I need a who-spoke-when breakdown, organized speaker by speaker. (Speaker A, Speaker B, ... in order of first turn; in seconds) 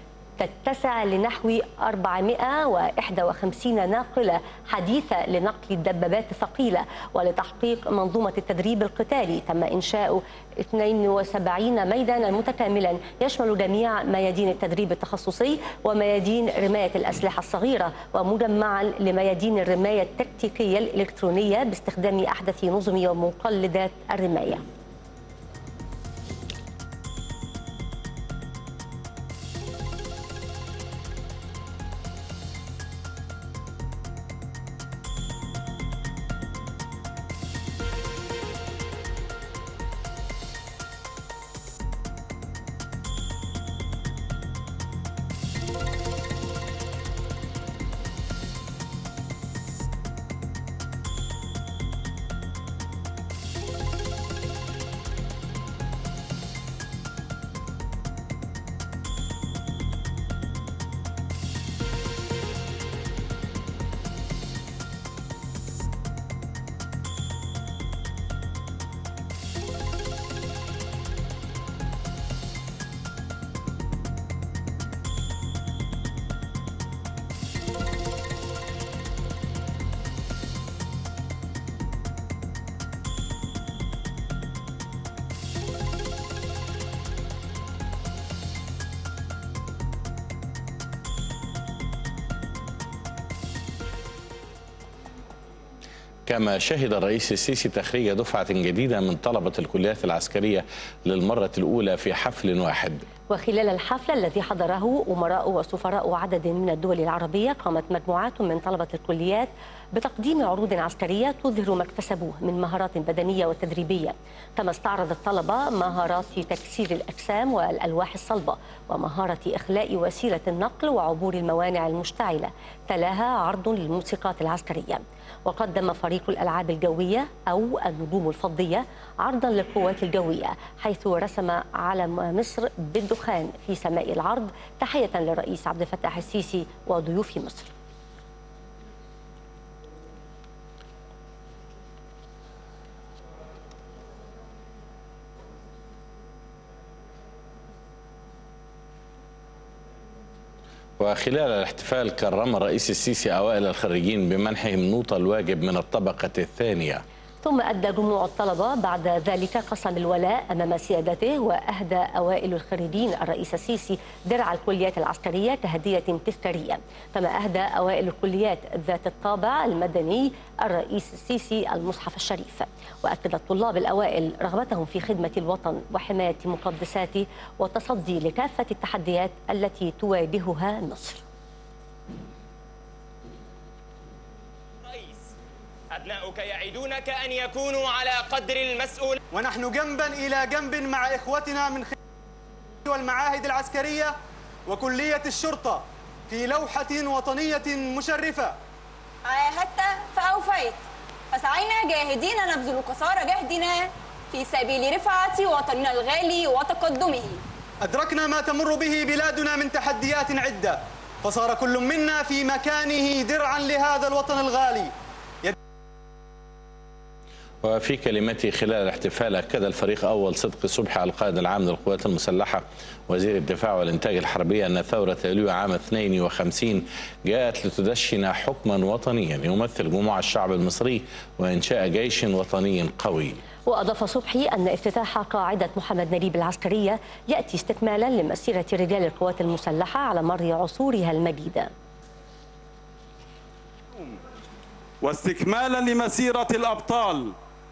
Speaker A: 0.4-24.6, 103.3-137.7, 157.4-181.2, 233.7-241.7
Speaker B: 96.2-103.0, 151.0-157.0, 217.6-233.4
Speaker C: 184.8-185.3, 185.9-189.2
Speaker D: 189.3-191.9, 192.8-194.1, 194.7-198.6, 207.8-215.6
Speaker E: 199.3-200.8, 201.3-207.4
Speaker F: 245.0-247.3